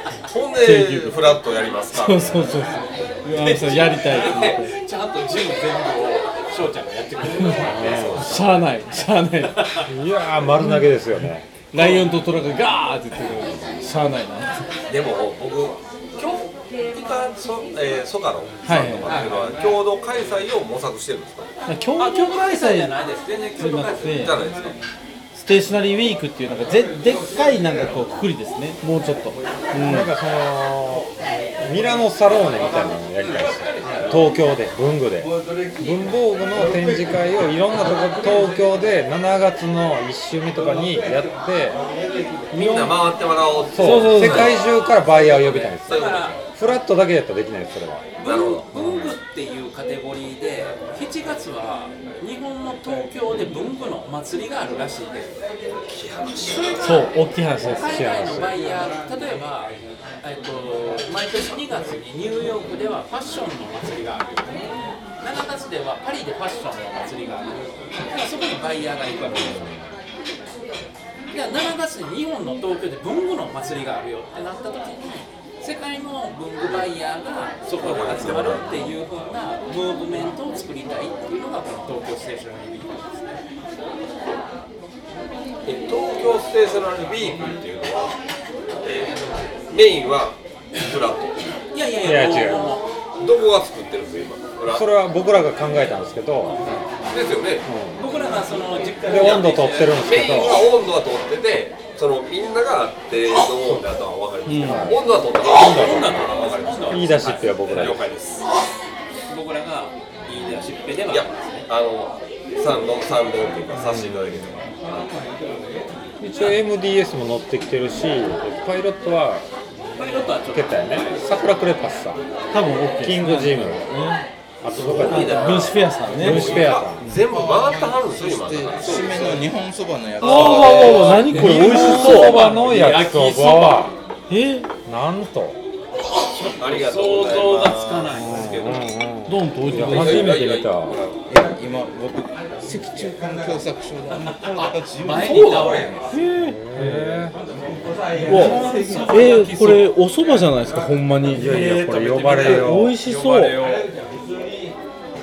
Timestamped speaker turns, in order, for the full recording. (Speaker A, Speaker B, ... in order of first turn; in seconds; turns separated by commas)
Speaker A: 0.3-2.6, Speaker B: 0.6-1.3, Speaker B: 1.9-4.7, Speaker C: 3.3-8.1, Speaker A: 7.5-8.7, Speaker D: 7.7-8.3, Speaker B: 8.2-9.7, Speaker C: 9.6-9.9, Speaker D: 9.8-11.5, Speaker B: 10.6-10.9, Speaker B: 11.7-14.7, Speaker A: 14.9-21.5, Speaker B: 18.6-19.2, Speaker C: 19.0-19.5, Speaker B: 21.7-23.0, Speaker C: 22.0-24.4, Speaker B: 23.6-24.4, Speaker A: 24.0-24.8, Speaker B: 25.3-30.1, Speaker D: 29.7-41.8, Speaker C: 33.2-34.1, Speaker A: 33.8-34.1, Speaker A: 42.5-44.8, Speaker D: 42.5-43.0, Speaker D: 43.7-48.0, Speaker B: 43.8-44.5, Speaker C: 45.1-46.4, Speaker A: 45.8-46.4, Speaker C: 48.2-55.5, Speaker A: 48.2-49.1, Speaker A: 55.9-57.0, Speaker C: 56.6-57.0, Speaker B: 56.8-58.0, Speaker D: 57.6-58.5, Speaker C: 57.6-69.7, Speaker C: 71.3-83.4, Speaker A: 77.8-78.9, Speaker A: 85.6-88.1, Speaker A: 88.8-91.5, Speaker C: 91.7-92.9, Speaker D: 92.0-92.8, Speaker A: 93.2-94.9, Speaker D: 94.7-96.6, Speaker C: 96.4-96.8, Speaker A: 97.1-97.7, Speaker D: 97.6-98.0, Speaker C: 97.9-100.5, Speaker D: 99.0-100.7, Speaker A: 99.1-108.4, Speaker B: 104.5-105.0, Speaker D: 104.6-106.2, Speaker C: 105.5-107.9, Speaker D: 106.9-108.0, Speaker C: 109.3-111.7, Speaker A: 111.1-115.1, Speaker D: 116.2-119.5, Speaker C: 119.9-121.2, Speaker D: 120.5-122.2, Speaker B: 122.5-124.2, Speaker D: 122.8-123.9, Speaker D: 124.6-127.0, Speaker A: 124.7-129.5, Speaker B: 125.0-127.2, Speaker E: 127.3-131.2, Speaker B: 130.2-132.6, Speaker A: 130.2-131.2, Speaker C: 130.5-133.9, Speaker D: 130.5-133.9, Speaker B: 134.3-134.7, Speaker D: 134.8-135.6, Speaker C: 136.3-138.8, Speaker A: 136.5-138.1, Speaker D: 138.1-141.0, Speaker B: 139.2-140.5, Speaker A: 139.7-141.3, Speaker E: 141.3-146.1, Speaker C: 144.5-146.1, Speaker A: 145.2-145.9, Speaker B: 146.1-147.2, Speaker D: 146.3-147.3, Speaker C: 148.2-149.9, Speaker B: 148.2-151.6, Speaker D: 151.3-152.9, Speaker C: 151.4-153.9, Speaker B: 152.2-153.6